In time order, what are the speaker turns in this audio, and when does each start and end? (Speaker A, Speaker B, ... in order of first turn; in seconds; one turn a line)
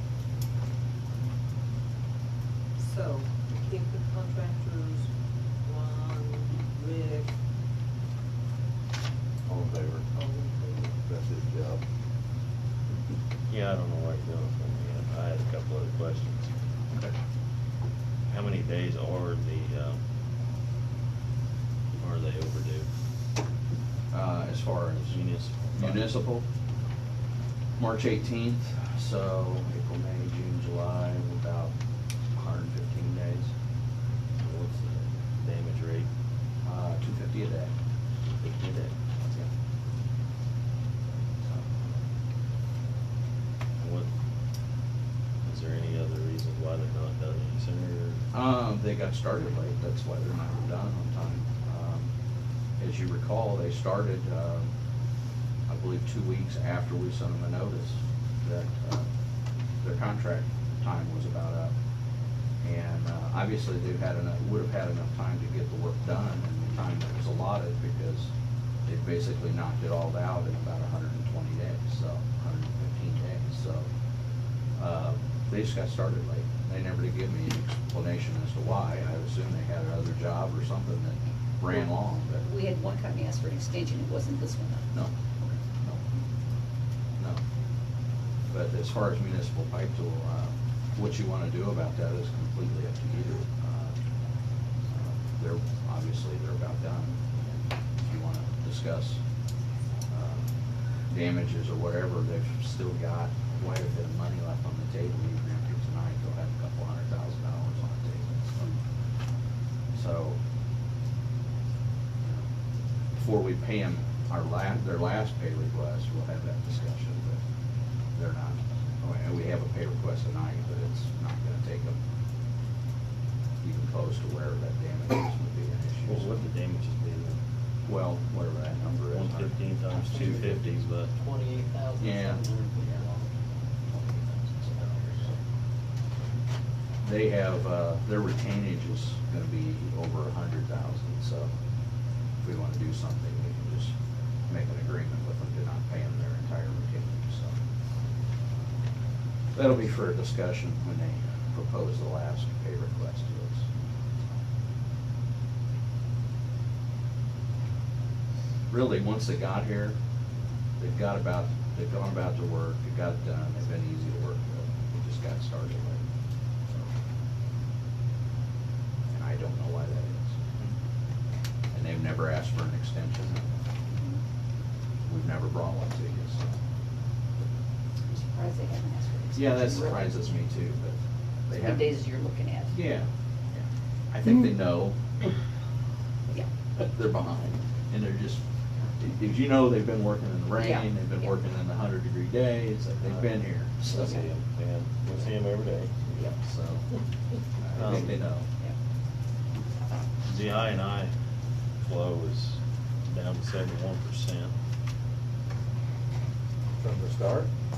Speaker A: 2.8-5.1
Speaker A: 5.6-7.3
Speaker B: 9.5-10.0
Speaker A: 10.1-10.9
Speaker B: 11.1-11.8
Speaker C: 13.5-16.5
Speaker C: 18.2-20.0
Speaker C: 21.9-22.9
Speaker D: 24.1-26.4
Speaker C: 25.0-26.1
Speaker D: 27.8-31.7
Speaker D: 32.3-33.5
Speaker C: 34.4-36.1
Speaker D: 36.6-37.7
Speaker C: 38.4-38.9
Speaker C: 43.8-44.1
Speaker C: 45.4-48.2
Speaker D: 48.3-52.1
Speaker D: 52.8-54.7
Speaker D: 55.7-59.0
Speaker D: 59.8-61.7
Speaker D: 62.6-68.3
Speaker D: 68.8-73.9
Speaker D: 74.8-82.5
Speaker E: 82.4-84.9
Speaker D: 84.9-86.0
Speaker D: 88.5-93.9
Speaker D: 94.9-99.2
Speaker D: 100.1-100.5
Speaker D: 101.1-108.8
Speaker D: 109.9-110.4
Speaker D: 113.1-117.4
Speaker D: 118.1-122.0
Speaker D: 123.6-126.3
Speaker C: 126.0-127.4
Speaker D: 127.8-130.8
Speaker C: 129.1-131.1
Speaker F: 131.1-133.3
Speaker D: 132.0-133.0
Speaker D: 134.6-135.3
Speaker F: 134.7-135.3
Speaker D: 137.0-141.5
Speaker D: 142.4-143.9
Speaker D: 144.5-147.6
Speaker D: 149.5-153.7
Speaker D: 158.7-160.0
Speaker D: 160.8-166.0
Speaker D: 166.7-166.9
Speaker D: 169.1-170.7
Speaker D: 171.7-173.5
Speaker D: 175.1-176.5
Speaker E: 178.1-180.2
Speaker D: 179.3-181.0
Speaker D: 181.5-182.0
Speaker E: 181.5-182.8
Speaker D: 182.7-185.0
Speaker D: 186.8-188.4
Speaker D: 188.9-194.2
Speaker E: 190.5-191.3
Speaker C: 193.0-195.9
Speaker D: 196.1-196.8
Speaker E: 196.2-196.4
Speaker D: 197.6-198.5
Speaker C: 197.8-198.1
Speaker C: 200.2-201.1
Speaker C: 201.8-204.5
Speaker B: 206.8-207.5